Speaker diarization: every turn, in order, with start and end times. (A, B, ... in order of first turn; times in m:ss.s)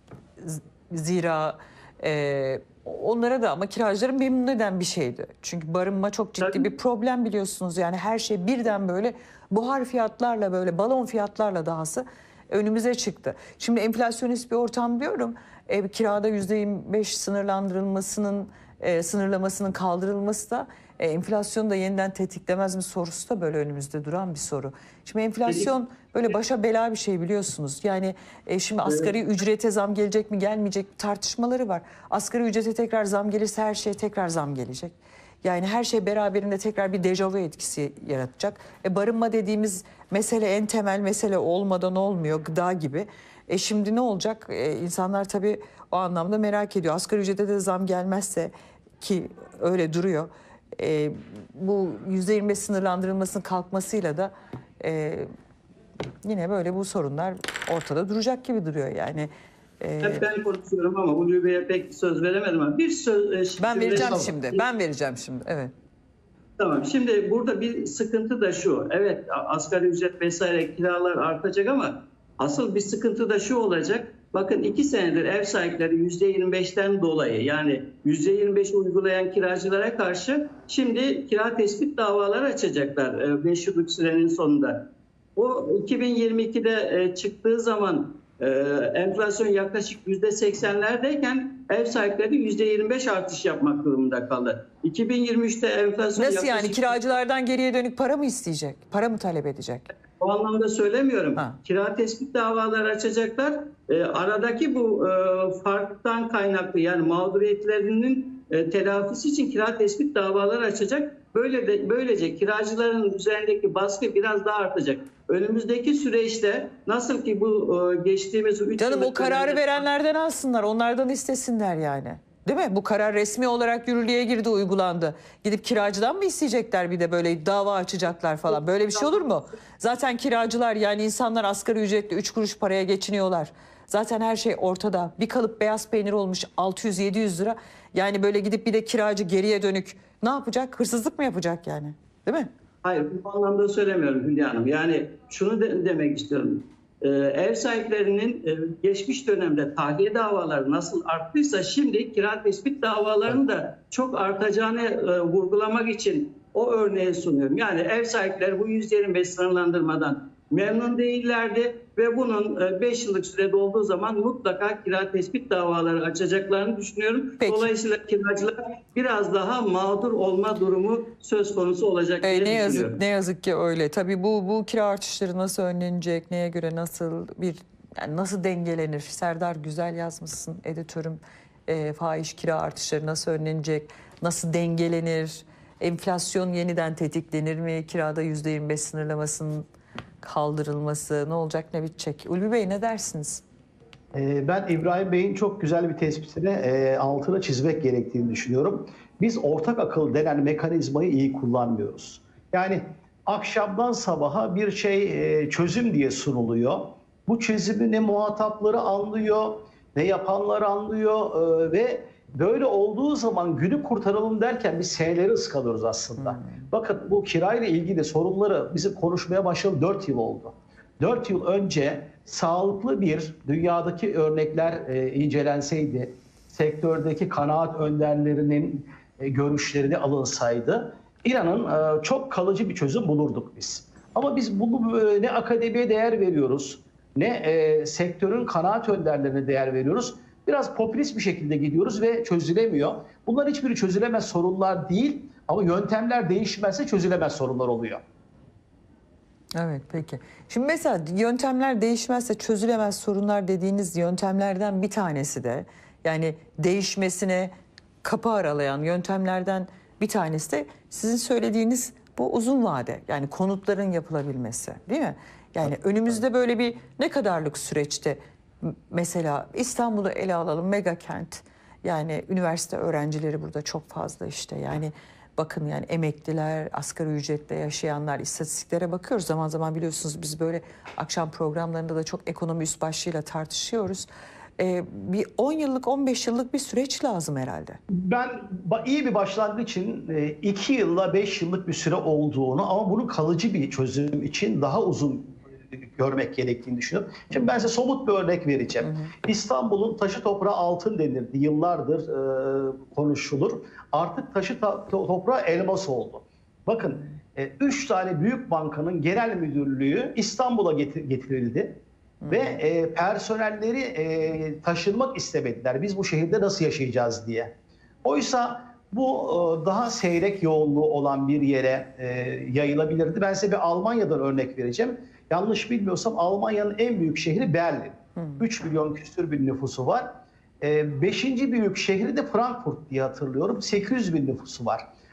0:00.4-0:55.3 A
0:06.4-0:06.7 B
0:28.8-0:29.1 B
0:56.2-1:00.2 A
1:00.0-1:04.6 B
1:03.6-1:05.7 A
1:04.0-1:04.3 C
1:06.6-1:24.8 B
1:25.4-1:37.0 B
1:36.2-1:39.9 A
1:40.2-1:59.8 B
1:58.8-2:22.5 A
2:08.5-2:09.4 B
2:22.8-2:53.0 B
2:47.4-2:47.7 A
2:52.2-3:09.6 A
3:10.2-3:13.4 A
3:14.1-4:08.0 C
3:36.2-3:36.7 A
4:09.5-4:17.5 A
4:18.0-4:44.1 A
4:44.6-4:47.8 A
4:47.9-5:17.5 C
4:58.8-4:59.1 A
5:12.2-5:12.6 A
5:18.0-5:30.1 C
5:28.2-5:28.4 A
5:30.6-5:34.8 C